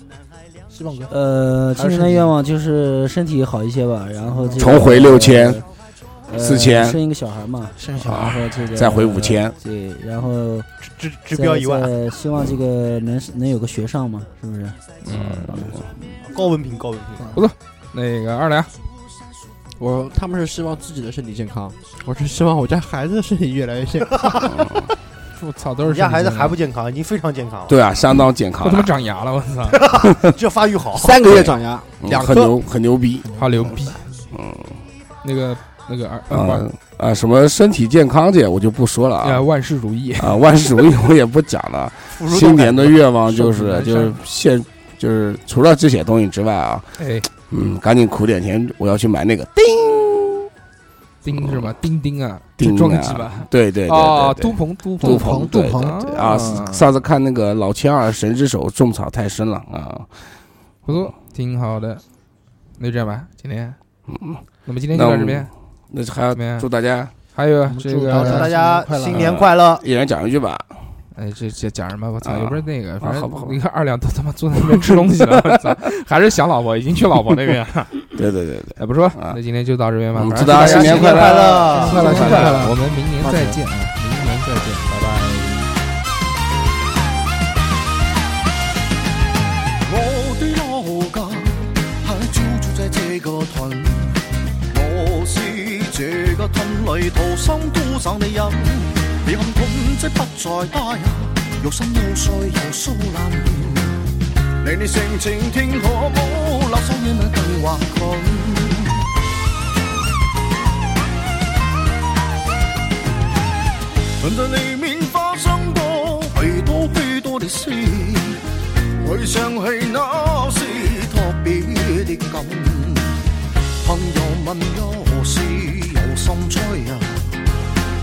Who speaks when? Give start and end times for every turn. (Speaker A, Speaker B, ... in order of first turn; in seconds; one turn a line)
Speaker A: 0.7-1.1
Speaker B: 1.1-5.7
Speaker A: 1.8-2.3
Speaker A: 4.2-4.9
Speaker C: 4.5-5.6
Speaker B: 6.3-10.7
Speaker C: 6.3-7.0
Speaker A: 7.8-8.3
Speaker C: 8.0-9.6
Speaker D: 10.8-11.9
Speaker B: 11.3-15.8
Speaker E: 15.1-15.6
Speaker C: 15.6-15.8
Speaker D: 16.1-17.4
Speaker E: 17.3-18.7
Speaker F: 19.8-24.2
Speaker D: 24.0-24.5
Speaker C: 24.4-24.9
Speaker E: 25.3-26.6
Speaker D: 25.8-27.8
Speaker C: 27.7-28.9
Speaker E: 28.6-30.0
Speaker D: 29.7-31.3
Speaker F: 30.9-32.3
Speaker C: 31.3-33.3
Speaker E: 33.3-34.2
Speaker A: 33.4-33.9
Speaker C: 34.3-34.8
Speaker E: 35.2-36.6
Speaker C: 36.3-39.4
Speaker E: 39.2-40.4
Speaker C: 40.2-46.9
Speaker E: 42.4-44.2
Speaker E: 47.0-47.3
Speaker C: 47.5-50.5
Speaker E: 51.2-56.9
Speaker C: 51.3-51.7
Speaker C: 52.6-60.1
Speaker A: 55.0-56.5
Speaker E: 60.9-62.0
Speaker E: 62.8-63.8
Speaker C: 64.1-67.1
Speaker E: 64.7-65.5
Speaker E: 66.3-66.7
Speaker E: 67.3-68.5
Speaker A: 67.7-69.5
Speaker D: 68.1-69.8
Speaker C: 69.1-70.7
Speaker E: 71.1-78.0
Speaker C: 72.2-73.6
Speaker C: 74.8-75.3
Speaker C: 78.1-79.4
Speaker E: 78.8-85.7
Speaker C: 80.1-82.6
Speaker D: 80.4-82.7
Speaker G: 89.8-109.0
Speaker G: 114.2-118.4
Speaker G: 119.0-123.2
Speaker G: 123.8-127.3